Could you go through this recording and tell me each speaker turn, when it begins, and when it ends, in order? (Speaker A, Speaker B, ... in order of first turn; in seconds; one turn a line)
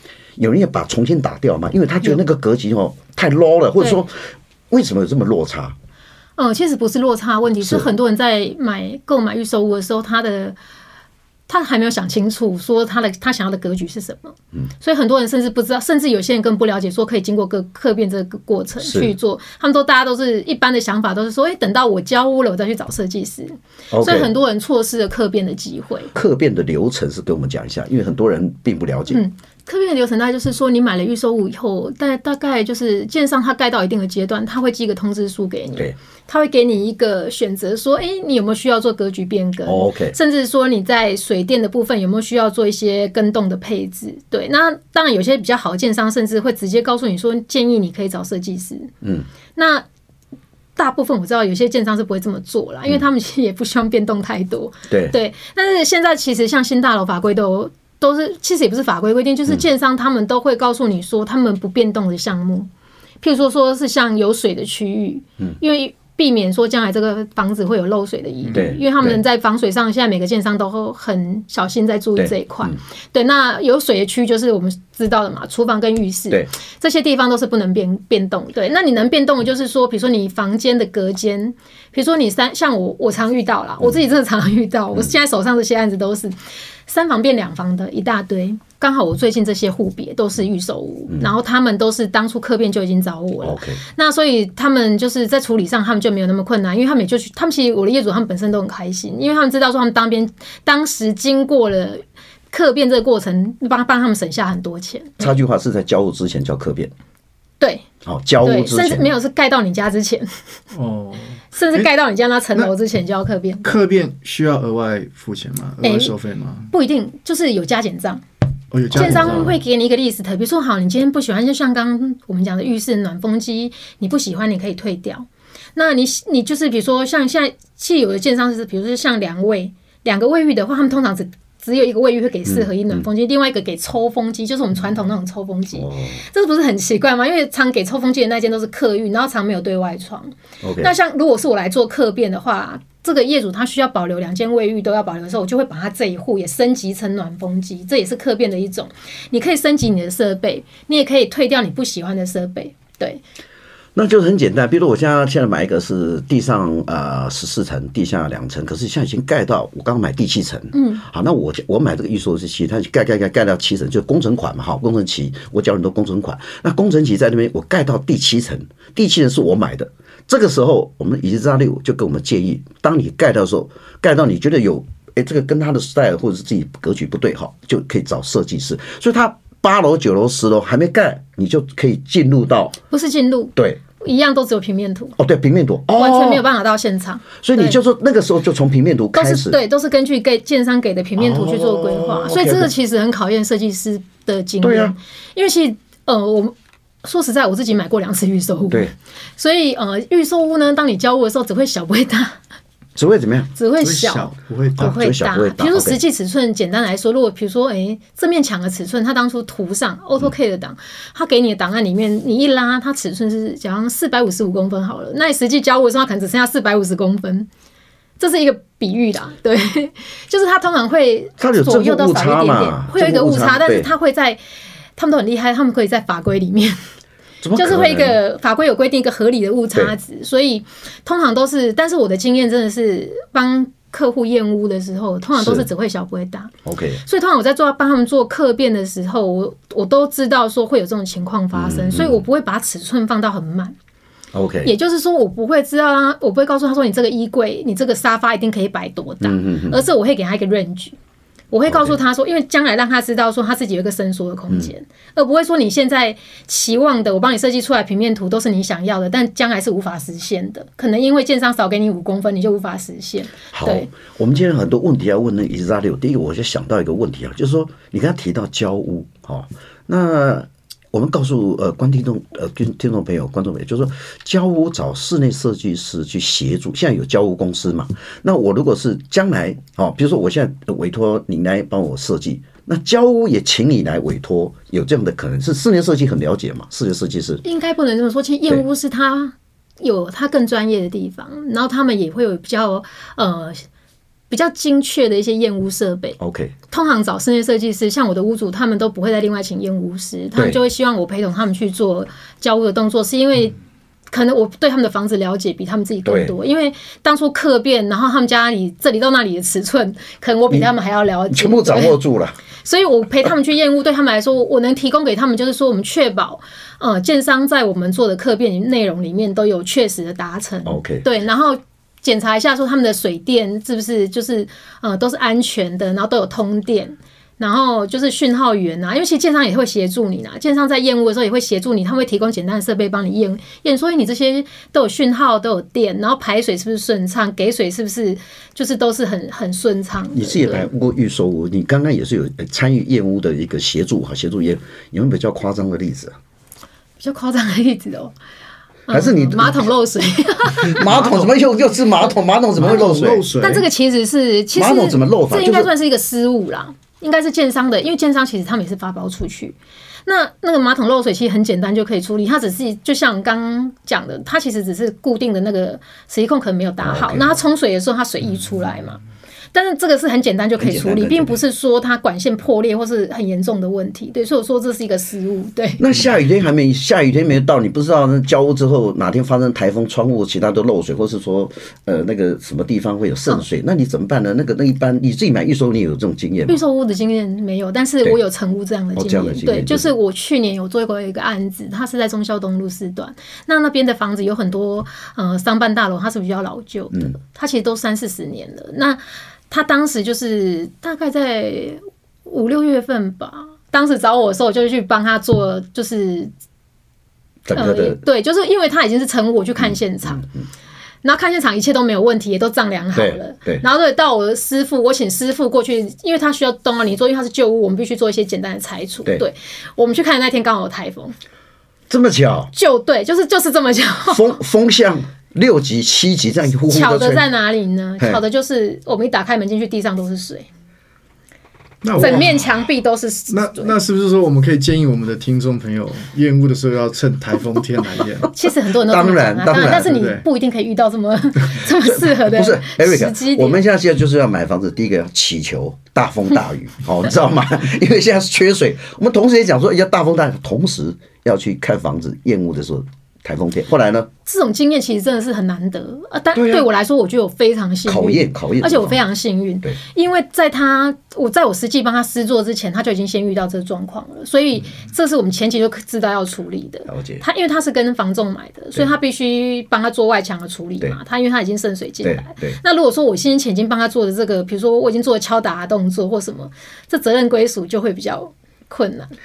Speaker A: 0.3-5.8
Speaker B: 6.4-10.6
Speaker A: 7.6-7.9
Speaker B: 11.5-26.1
Speaker A: 18.8-19.1
Speaker A: 23.9-24.3
Speaker A: 26.1-29.2
Speaker B: 29.1-48.9
Speaker A: 39.6-40.1
Speaker A: 49.0-49.3
Speaker B: 49.5-49.9
Speaker B: 50.8-62.7
Speaker A: 54.9-55.1
Speaker B: 63.2-86.3
Speaker A: 68.5-69.2
Speaker A: 72.2-72.8
Speaker B: 86.9-105.3
Speaker A: 93.4-93.8
Speaker A: 105.2-106.9
Speaker B: 107.6-107.8
Speaker A: 108.0-109.1
Speaker B: 108.4-110.4
Speaker C: 110.7-111.8
Speaker B: 111.5-113.7
Speaker C: 113.6-116.7
Speaker B: 115.8-116.1
Speaker B: 116.7-118.2
Speaker C: 118.7-119.6
Speaker B: 118.9-153.2
Speaker A: 132.5-133.0
Speaker A: 135.7-136.2
Speaker A: 140.6-140.9
Speaker A: 153.9-182.8
Speaker B: 160.7-161.0
Speaker B: 182.9-185.2
Speaker A: 185.2-186.4
Speaker B: 185.9-187.8
Speaker A: 187.4-189.6
Speaker B: 189.1-202.4
Speaker A: 191.2-192.7
Speaker A: 194.6-194.9
Speaker A: 202.9-203.5
Speaker B: 203.6-217.5
Speaker C: 203.8-205.0
Speaker A: 204.8-206.0
Speaker B: 218.2-224.4
Speaker A: 221.4-223.9
Speaker B: 224.9-226.8
Speaker A: 227.4-228.2
Speaker B: 227.5-236.5
Speaker A: 235.3-235.7
Speaker A: 236.6-237.0
Speaker B: 237.0-243.8
Speaker A: 241.5-242.2
Speaker A: 244.3-244.7
Speaker B: 244.6-250.9
Speaker A: 249.2-249.8
Speaker B: 251.5-263.9
Speaker A: 251.7-252.0
Speaker A: 263.5-287.4
Speaker B: 287.4-293.6
Speaker B: 294.3-296.2
Speaker A: 296.2-296.5
Speaker B: 296.7-303.6
Speaker B: 304.1-311.9
Speaker A: 306.0-306.3
Speaker A: 311.3-312.4
Speaker B: 312.6-340.7
Speaker A: 320.6-321.1
Speaker A: 340.1-346.1
Speaker B: 347.0-348.1
Speaker B: 348.9-350.8
Speaker A: 348.9-349.7
Speaker A: 350.6-353.3
Speaker C: 350.8-351.3
Speaker C: 352.6-353.6
Speaker B: 353.4-369.0
Speaker A: 354.5-355.7
Speaker A: 366.8-367.4
Speaker B: 369.5-375.8
Speaker A: 370.6-371.4
Speaker A: 375.8-386.6
Speaker B: 386.5-406.3
Speaker A: 388.9-389.9
Speaker A: 407.4-408.0
Speaker B: 407.5-410.2
Speaker A: 409.6-410.4
Speaker B: 411.0-421.1
Speaker A: 412.9-413.6
Speaker A: 421.9-422.5
Speaker B: 422.5-424.4
Speaker A: 424.1-427.3
Speaker B: 426.7-430.5
Speaker C: 431.8-432.4
Speaker B: 432.0-433.8
Speaker A: 432.0-432.3
Speaker C: 433.3-438.3
Speaker B: 438.3-443.6
Speaker A: 438.7-439.9
Speaker C: 439.8-440.2
Speaker A: 441.8-454.1
Speaker B: 454.2-479.1
Speaker A: 456.3-456.7
Speaker A: 457.8-459.0
Speaker A: 466.9-467.2
Speaker A: 472.0-472.6